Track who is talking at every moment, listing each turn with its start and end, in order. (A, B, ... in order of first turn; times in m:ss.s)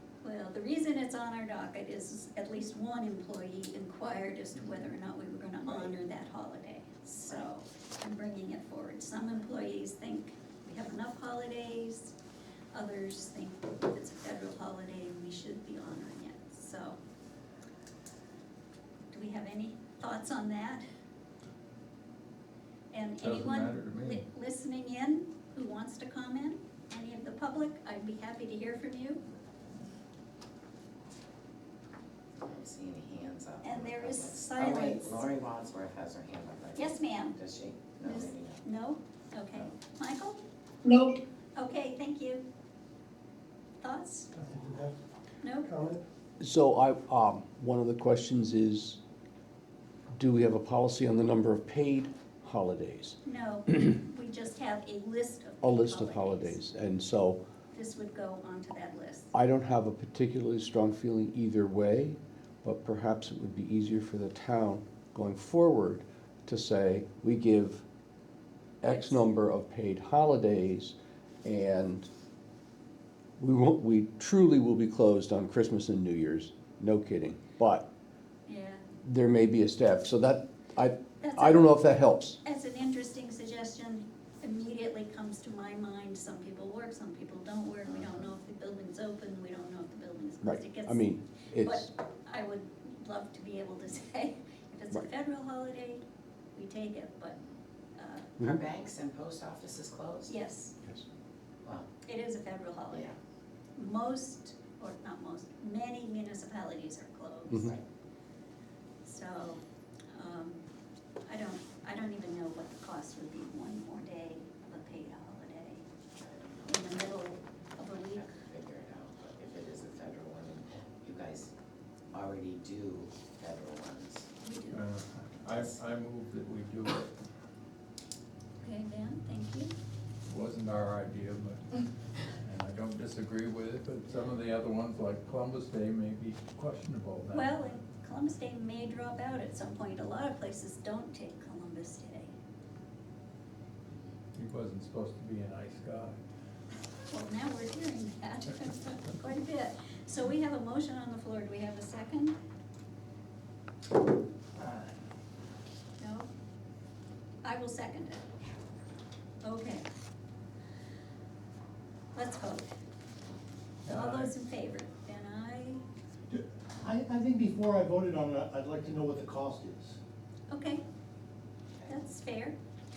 0:00.2-0:12.1 A
0:12.7-0:17.0 A
0:19.1-0:20.8 A
0:22.9-0:29.2 A
0:23.2-0:24.2 B
0:32.4-0:38.6 C
0:33.6-0:35.3 A
0:36.8-0:37.4 A
0:38.0-0:40.4 A
0:41.6-0:42.5 A
0:43.8-0:44.3 A
0:44.4-0:44.9 D
0:45.4-0:45.7 A
0:45.6-0:46.0 D
0:46.4-0:49.0 E
0:50.1-0:53.2 E
0:53.2-0:56.6 A
0:55.6-0:57.4 E
0:57.7-0:59.3 A
0:59.3-1:07.8 E
1:08.8-1:12.1 E
1:08.8-1:09.3 A
1:13.4-1:17.9 E
1:18.5-1:18.8 A
1:19.0-1:22.4 E
1:21.2-1:31.0 A
1:30.4-1:31.9 E
1:31.6-1:36.0 A
1:36.5-1:37.4 A
1:38.0-1:38.3 A
1:38.5-1:40.3 C
1:40.3-1:40.8 A
1:42.0-1:43.1 A
1:43.8-1:47.8 A
1:49.0-1:50.6 A
1:51.2-1:55.8 A
1:56.2-1:57.1 C
1:56.7-1:58.2 A
1:58.1-2:01.5 C
2:02.1-2:04.3 C
2:04.4-2:04.8 A
2:04.7-2:07.1 B
2:08.6-2:09.7 A
2:10.3-2:11.8 B
2:12.4-2:17.5 B
2:17.3-2:22.3 A
2:24.3-2:26.2 B
2:27.1-2:32.4 A
2:34.6-2:34.9 D
2:36.0-2:36.3 A
2:37.4-2:38.2 A
2:39.4-2:39.8 A
2:42.1-2:42.7 A
2:43.8-2:44.3 B
2:43.9-2:45.8 A
2:46.3-2:50.0 D
2:50.5-2:50.8 A
2:51.9-2:52.6 A